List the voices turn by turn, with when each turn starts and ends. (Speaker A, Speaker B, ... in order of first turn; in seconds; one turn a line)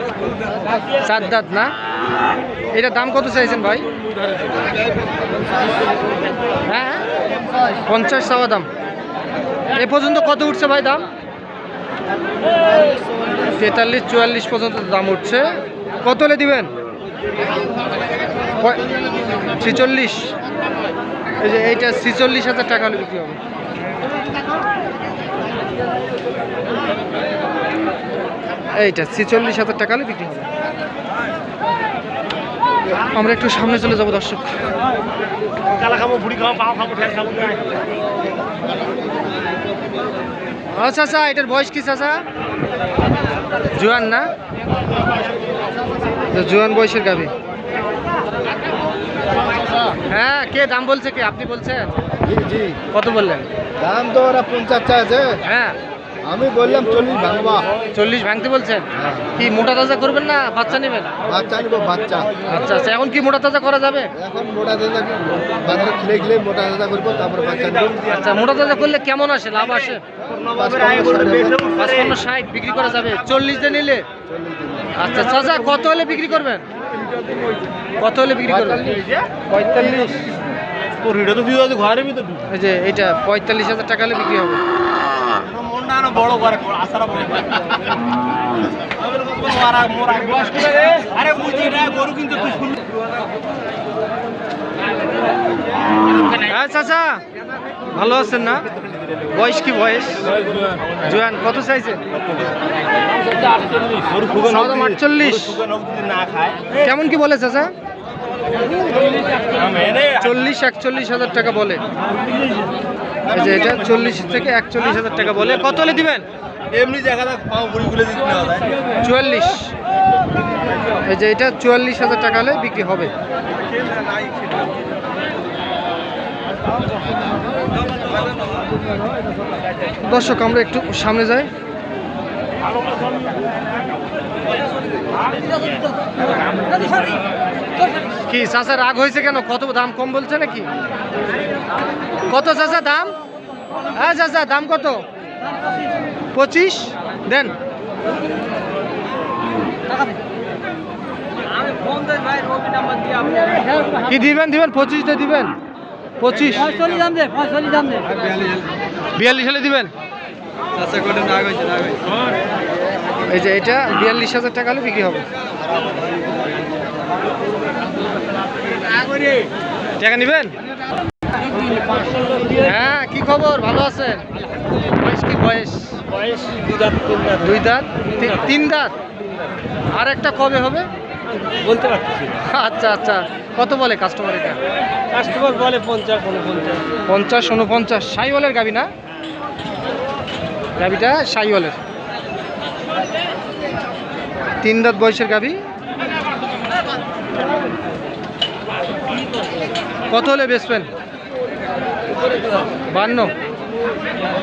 Speaker A: 1.0-1.7
Speaker A: 2.7-3.9
Speaker A: 6.7-7.1
Speaker A: 7.9-8.7
Speaker A: 9.7-11.1
Speaker A: 13.6-16.7
Speaker A: 18.6-18.8
Speaker A: 19.5-20.3
Speaker A: 21.4-23.4
Speaker A: 28.7-30.5
Speaker A: 33.1-34.5
Speaker B: 36.0-37.6
Speaker A: 40.7-42.2
Speaker A: 43.7-44.3
Speaker A: 46.3-47.3
Speaker A: 50.1-52.0
Speaker C: 52.3-52.8
Speaker A: 52.9-53.5
Speaker C: 53.8-55.4
Speaker A: 55.4-55.8
Speaker C: 56.2-57.7
Speaker A: 57.9-61.1
Speaker C: 61.3-62.4
Speaker A: 62.4-64.1
Speaker C: 64.2-68.0
Speaker B: 67.6-68.0
Speaker A: 68.0-70.0
Speaker B: 70.3-71.9
Speaker C: 70.6-71.4
Speaker A: 71.7-74.0
Speaker C: 74.3-74.9
Speaker A: 75.0-76.7
Speaker A: 78.0-80.3
Speaker B: 81.0-82.4
Speaker A: 82.5-84.6
Speaker B: 85.4-87.6
Speaker B: 89.2-92.9
Speaker A: 96.3-97.2
Speaker A: 97.9-98.7
Speaker A: 99.3-100.3
Speaker A: 101.0-102.0
Speaker B: 104.0-104.8
Speaker A: 104.3-105.6
Speaker B: 105.5-106.7
Speaker A: 106.7-107.7
Speaker B: 109.0-110.1
Speaker A: 110.1-111.8
Speaker A: 113.3-116.2
Speaker B: 116.7-118.7
Speaker A: 119.0-119.7
Speaker A: 121.0-123.1
Speaker A: 130.0-131.5
Speaker A: 138.3-140.7
Speaker A: 142.3-143.1
Speaker A: 143.9-145.1
Speaker A: 146.3-147.5
Speaker A: 154.0-155.5
Speaker A: 156.2-156.8
Speaker B: 156.8-157.2
Speaker B: 157.9-158.6
Speaker A: 159.2-159.9
Speaker B: 160.8-162.0
Speaker A: 163.3-165.2
Speaker A: 170.0-170.5
Speaker A: 172.5-174.3
Speaker A: 174.8-176.2
Speaker B: 176.3-177.3
Speaker A: 177.3-178.9
Speaker A: 179.9-180.9
Speaker B: 181.7-182.3
Speaker A: 182.4-184.6
Speaker B: 185.1-186.8
Speaker A: 187.1-188.9
Speaker A: 190.8-191.8
Speaker A: 194.6-195.6
Speaker A: 200.1-200.9
Speaker A: 202.9-203.3